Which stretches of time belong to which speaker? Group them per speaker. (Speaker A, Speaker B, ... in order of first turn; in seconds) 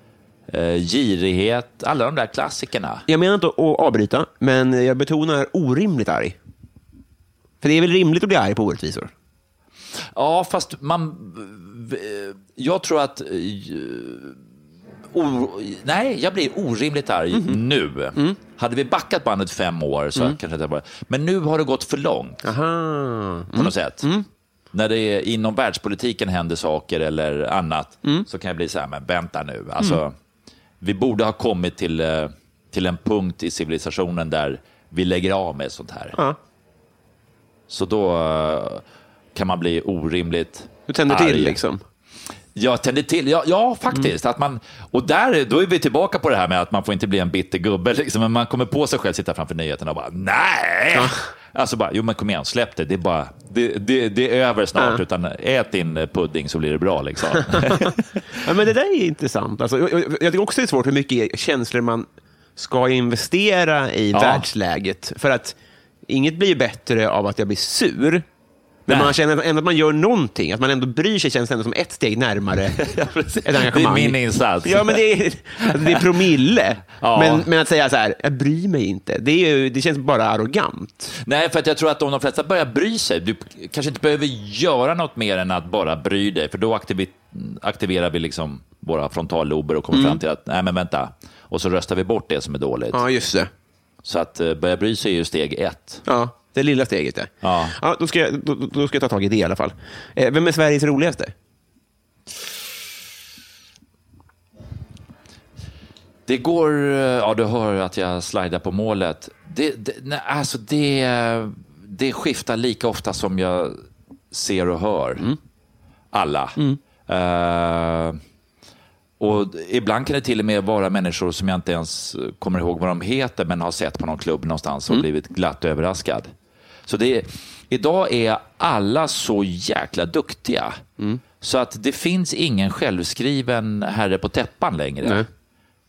Speaker A: 0.5-3.0, 10.2-14.4, 15.1-22.5, 23.5-24.1, 24.7-30.1, 30.8-36.2, 37.7-38.8, 39.4-41.6, 42.5-58.4, 64.1-64.5, 68.9-69.2, 72.8-75.0, 75.6-76.2, 77.0-77.5, 81.2-93.0, 94.0-96.0, 97.4-97.8, 106.3-115.3, 116.1-118.2, 119.2-126.3, 126.9-130.8, 131.4-135.3
Speaker B: 3.1-6.4, 7.6-9.1, 17.3-17.6, 22.4-24.3, 40.9-41.8, 51.0-51.2, 57.5-57.9, 58.4-62.1, 62.6-65.5, 66.1-68.2, 68.9-72.8, 73.4-81.1, 89.9-90.2, 92.9-93.5, 96.1-101.3